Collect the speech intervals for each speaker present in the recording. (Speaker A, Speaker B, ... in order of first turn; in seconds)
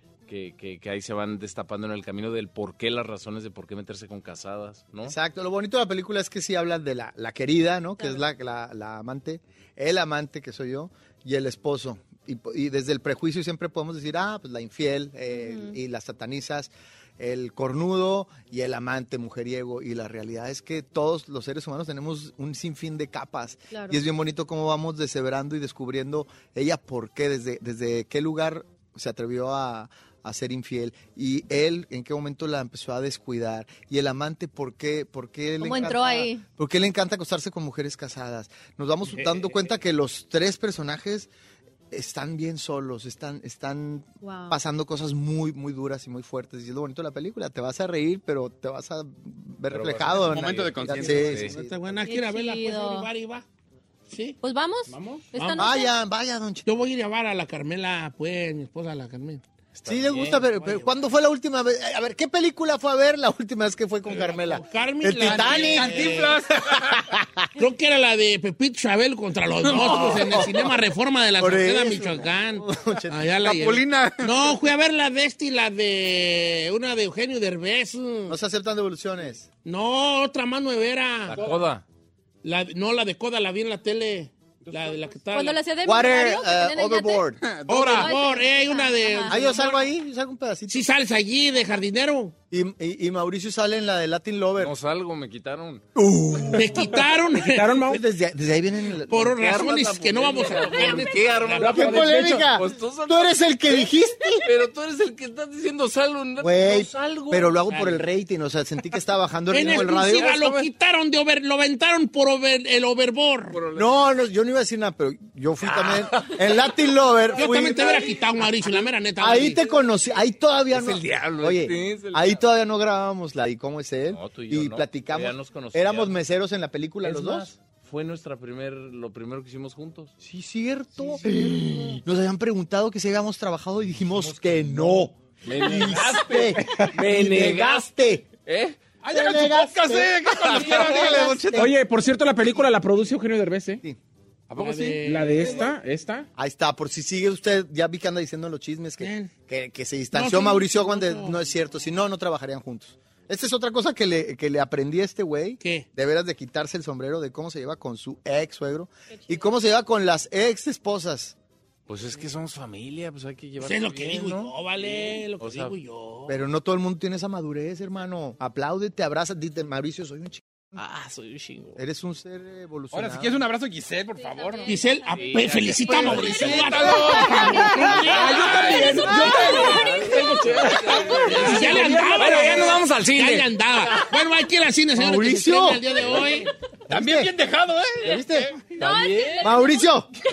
Speaker A: 0.3-5.2, 49.7-51.5, 59.9-60.5, 81.3-81.8, 94.6-95.8, 99.1-108.1, 109.5-110.7, 113.5-114.0, 115.6-116.6, 117.4-117.7, 120.7-122.4, 124.1-126.2, 127.0-130.1, 130.9-132.0, 135.4-138.9, 140.3-141.6, 161.9-165.7, 170.8-171.8, 175.0-184.1, 186.1-186.4, 188.6-189.5
Speaker B: 5.0-41.3, 41.9-52.1, 55.5-56.6, 59.7-67.5, 69.6-70.7, 71.4-73.5, 78.3-79.5, 85.8-87.4, 89.3-90.8, 92.5-94.7, 95.9-97.0, 97.8-99.3, 101.7-104.5, 106.4-110.2, 113.7-118.2, 119.2-127.5, 130.2-138.3, 139.1-141.7, 146.3-161.3, 166.3-170.8, 171.8-173.4, 184.9-186.0, 186.9-187.3, 188.0-188.6, 189.4-190.1
Speaker C: 15.3-15.8, 23.7-24.0, 35.6-36.4, 44.2-44.6, 52.0-53.1, 54.4-55.9, 85.3-87.2, 87.8-89.5, 174.3-174.8, 178.7-178.9, 188.8-189.8
Speaker D: 50.2-51.4, 65.2-67.0, 73.4-74.5, 81.3-81.6, 84.6-85.1, 87.4-88.1, 139.0-141.6, 144.5-145.5, 172.9-174.8, 175.9-179.9, 186.9-188.3
Speaker E: 51.3-53.5, 54.1-54.4, 55.3-55.7, 56.6-59.4, 60.5-60.9, 64.1-66.4, 67.5-78.4, 79.6-81.5, 82.4-85.6, 87.7-89.8, 90.7-92.3, 96.5-97.8, 99.1-101.9, 109.5-113.6, 117.3-119.6, 144.6-145.7, 149.0-149.3, 150.1-151.4, 155.6-155.8, 163.6-166.4, 174.7-179.9, 181.2-186.5
Speaker F: 54.9-55.3, 97.4-98.0, 101.6-102.5, 141.5-143.8, 145.0-146.2, 177.9-182.8